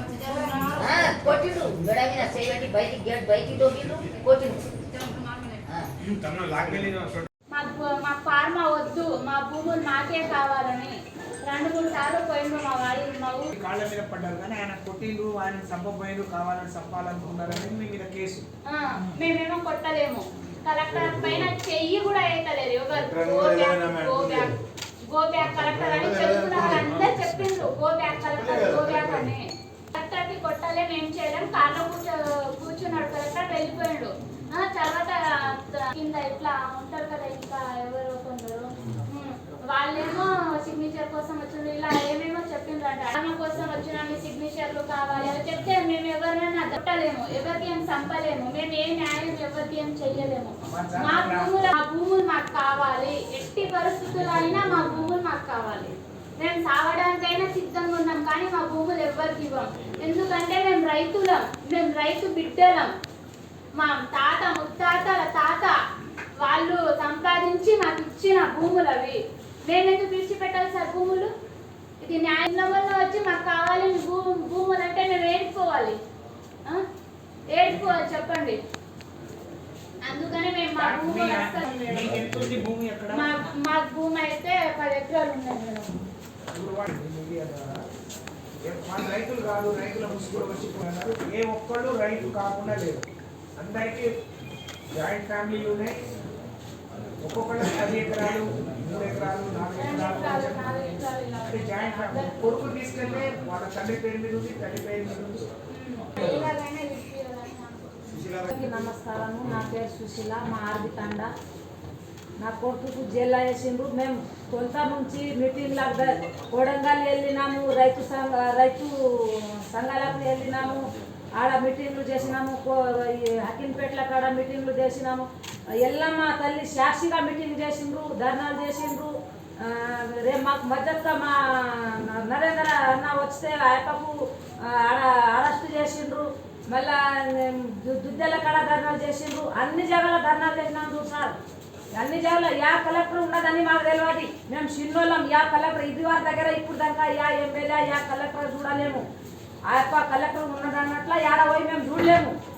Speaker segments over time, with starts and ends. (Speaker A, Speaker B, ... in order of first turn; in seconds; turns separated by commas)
Speaker A: 0.8-4.7, Speaker B: 7.5-13.5, Speaker C: 13.5-18.4, Speaker B: 18.7-24.6, Speaker B: 25.1-62.9, Speaker C: 50.6-51.5, Speaker B: 63.8-65.8, Speaker B: 66.4-71.3, Speaker B: 72.0-76.0, Speaker B: 77.5-78.6, Speaker B: 80.0-82.0, Speaker C: 80.7-83.3, Speaker B: 83.1-86.1, Speaker C: 86.5-87.7, Speaker C: 88.6-93.0, Speaker C: 93.6-94.1, Speaker C: 95.0-96.0, Speaker C: 97.2-105.5, Speaker B: 99.8-102.4, Speaker B: 105.7-108.3, Speaker D: 108.5-111.3, Speaker D: 112.4-120.8, Speaker D: 121.4-125.3, Speaker D: 125.8-141.3, Speaker D: 141.9-149.0, Speaker D: 149.7-152.3